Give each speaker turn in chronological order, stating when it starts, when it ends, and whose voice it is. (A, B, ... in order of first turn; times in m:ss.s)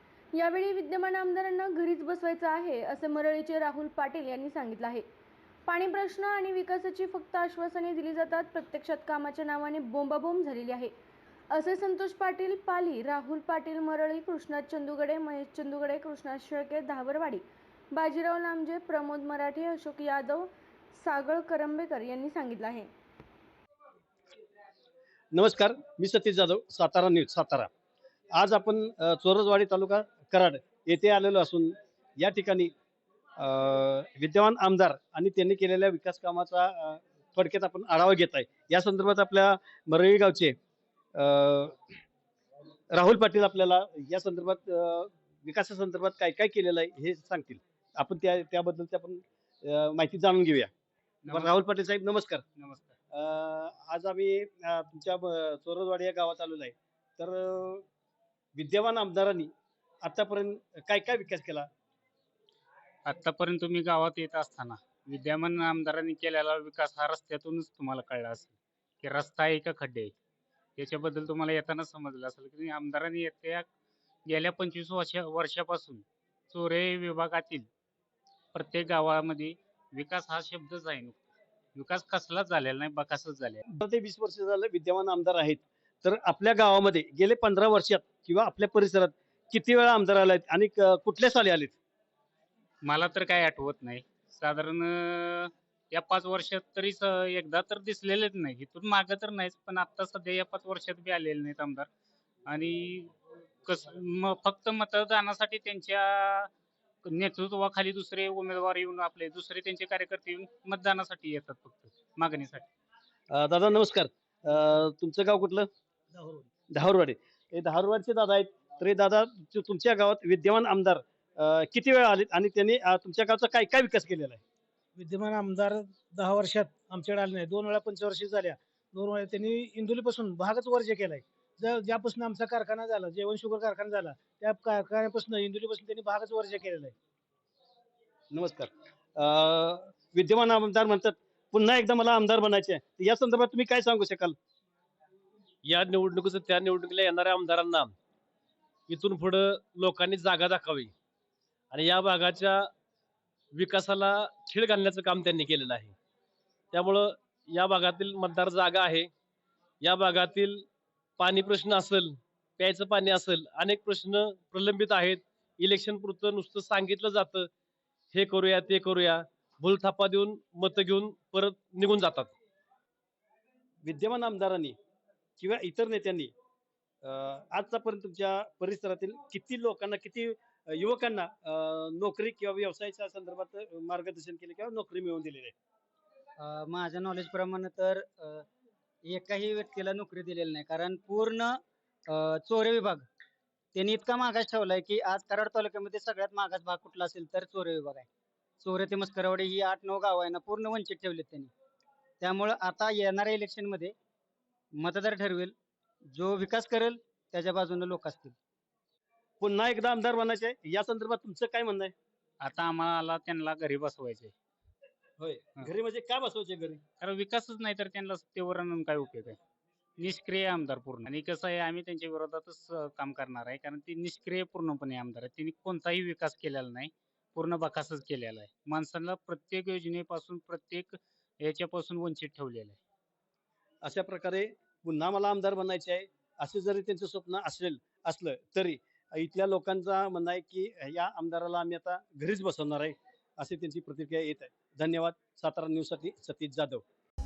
0:00.3-0:05.0 A
0:05.6-0:10.9 A
0:11.5-0:22.9 A
0:25.3-0:27.7 B
0:28.3-0:32.7 B
0:33.4-0:40.5 B
0:41.2-0:41.7 B
0:42.9-0:50.7 B
0:51.2-0:51.5 C
0:51.3-0:52.4 B
0:52.6-0:52.9 C
0:53.1-0:57.8 B
0:58.6-0:59.5 B
1:00.0-1:01.7 B
1:03.0-1:10.2 C
1:10.8-1:13.7 C
1:14.2-1:17.7 C
1:18.5-1:23.6 C
1:23.8-1:31.8 B
1:32.8-1:41.9 C
1:42.5-1:46.5 C
1:47.0-1:52.7 C
1:53.3-1:55.7 B
1:56.1-1:56.5 D
1:56.7-2:04.4 B
2:05.0-2:16.9 D
2:18.3-2:24.4 B
2:25.6-2:27.9 E
2:28.9-2:30.9 E
2:31.7-2:32.7 E
2:33.5-2:35.9 E
2:36.7-2:39.1 E
2:39.8-2:40.7 E
2:41.2-2:47.5 E
2:48.1-2:52.3 E
2:53.8-2:54.7 B
2:55.4-2:56.3 B
2:57.0-3:05.5 B
3:06.4-3:08.4 F
3:09.0-3:13.0 F
3:13.7-3:18.1 F
3:18.6-3:21.5 F
3:22.2-3:23.9 F
3:24.8-3:25.5 F
3:26.1-3:28.4 F
3:29.4-3:31.9 B
3:32.4-3:34.3 C
3:35.2-3:36.8 B
3:37.0-3:39.4 C
3:40.0-3:52.8 C
3:53.8-4:06.8 B